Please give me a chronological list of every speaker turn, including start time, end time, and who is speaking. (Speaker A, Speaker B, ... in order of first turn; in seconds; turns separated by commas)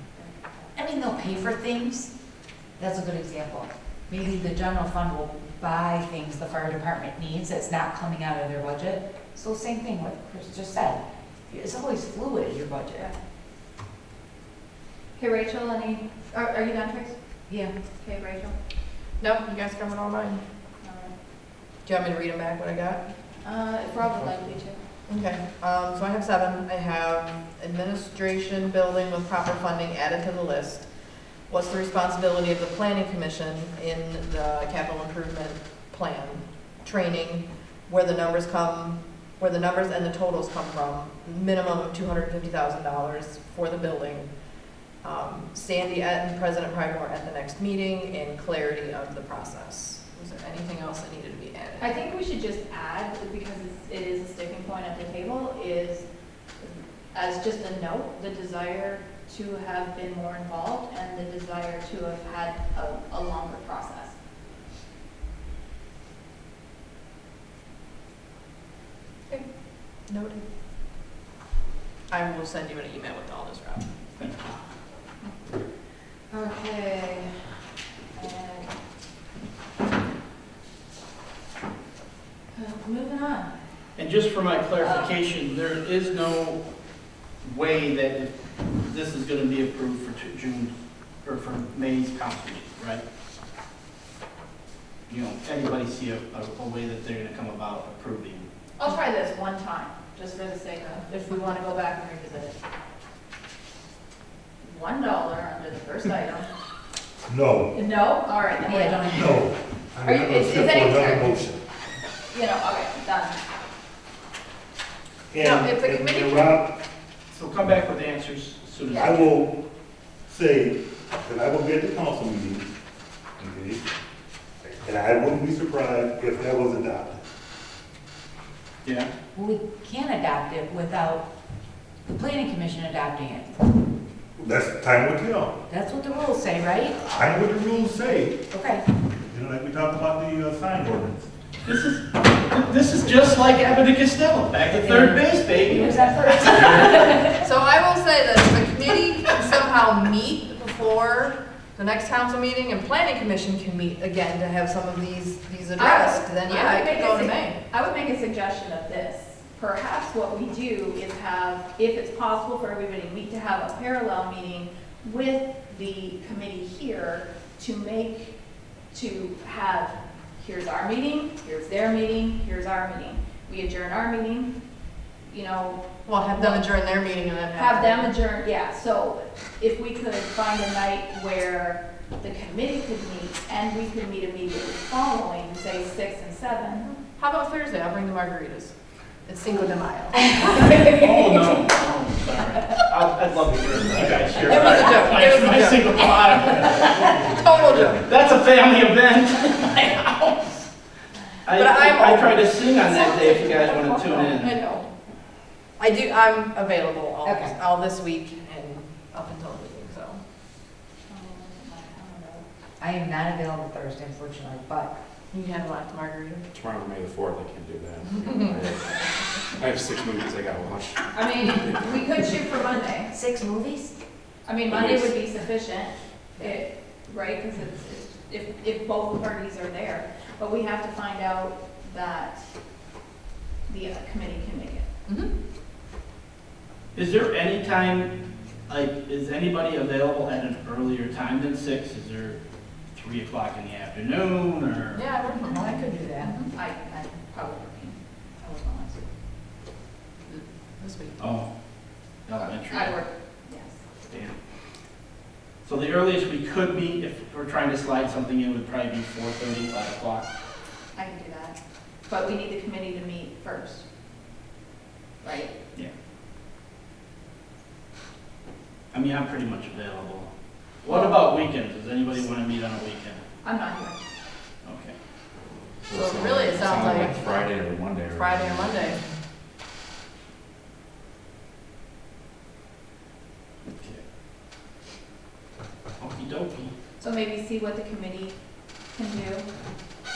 Speaker A: 0.7-2.1, Speaker A: 2.8-13.1, Speaker B: 15.2-17.1, Speaker B: 18.0-18.6, Speaker C: 19.2-20.4, Speaker B: 20.8-21.1, Speaker C: 21.8-23.0, Speaker B: 23.4-24.8, Speaker C: 25.1-30.9, Speaker C: 31.5-44.3, Speaker C: 45.0-52.0, Speaker B: 51.8-56.0, Speaker B: 56.6-64.1, Speaker C: 70.1-70.4, Speaker C: 72.1-73.8, Speaker B: 76.3-77.4, Speaker B: 78.1-78.7, Speaker B: 82.5-83.5, Speaker D: 84.0-86.6, Speaker B: 84.8-85.1, Speaker D: 87.4-90.7, Speaker D: 91.2-93.0, Speaker D: 95.1-98.5, Speaker B: 98.8-102.6, Speaker B: 104.6-106.5, Speaker E: 107.3-107.7, Speaker B: 107.7-109.3, Speaker A: 108.6-109.5, Speaker E: 109.0-111.6, Speaker B: 110.0-111.4, Speaker B: 112.3-113.5, Speaker E: 115.3-116.7, Speaker C: 115.4-116.6, Speaker D: 117.3-119.4, Speaker E: 119.0-119.5, Speaker E: 120.3-122.7, Speaker E: 123.4-123.8, Speaker E: 124.6-127.2, Speaker D: 128.8-129.1, Speaker A: 129.3-131.2, Speaker A: 132.1-133.5, Speaker E: 134.4-135.5, Speaker A: 135.7-137.0, Speaker E: 137.0-138.4, Speaker A: 138.5-138.8, Speaker E: 139.3-141.3, Speaker D: 141.6-146.8, Speaker A: 144.7-147.4, Speaker E: 146.5-146.9, Speaker C: 147.4-157.6, Speaker B: 155.8-168.3, Speaker B: 168.9-174.5, Speaker B: 175.2-176.7, Speaker C: 176.1-178.1, Speaker B: 177.5-187.0, Speaker C: 186.8-188.7, Speaker C: 189.2-190.7, Speaker D: 190.8-196.8, Speaker E: 193.4-194.9, Speaker B: 194.5-195.3, Speaker C: 194.5-196.2, Speaker E: 196.3-198.0, Speaker C: 197.3-198.0, Speaker D: 198.0-200.6, Speaker D: 201.4-204.6, Speaker C: 201.5-204.8, Speaker B: 204.6-204.8, Speaker C: 205.8-210.2, Speaker A: 207.2-207.5, Speaker B: 211.1-212.4, Speaker A: 212.8-214.9, Speaker C: 215.3-216.4, Speaker F: 216.5-218.9, Speaker B: 218.8-219.2, Speaker F: 219.5-221.8, Speaker B: 221.1-223.1, Speaker A: 223.1-223.9, Speaker B: 224.4-232.5, Speaker F: 224.7-225.1, Speaker B: 233.7-234.9, Speaker C: 235.1-235.3, Speaker D: 236.9-238.1, Speaker D: 238.7-242.4, Speaker D: 242.9-245.0, Speaker C: 244.9-245.7, Speaker A: 245.4-246.3, Speaker C: 246.2-246.5, Speaker B: 246.5-249.1, Speaker C: 250.3-251.2, Speaker D: 251.2-251.5, Speaker D: 252.2-252.9, Speaker B: 252.7-253.8, Speaker D: 254.1-254.3, Speaker D: 255.6-260.3, Speaker B: 260.9-263.8, Speaker B: 265.2-265.5, Speaker D: 268.9-270.3, Speaker D: 270.8-273.2, Speaker B: 270.8-271.2, Speaker B: 273.4-274.0, Speaker D: 274.6-274.9, Speaker F: 275.9-279.0, Speaker C: 275.9-277.6, Speaker C: 278.1-279.0, Speaker D: 283.7-284.0, Speaker D: 286.0-286.7, Speaker B: 287.0-288.4, Speaker B: 288.9-289.4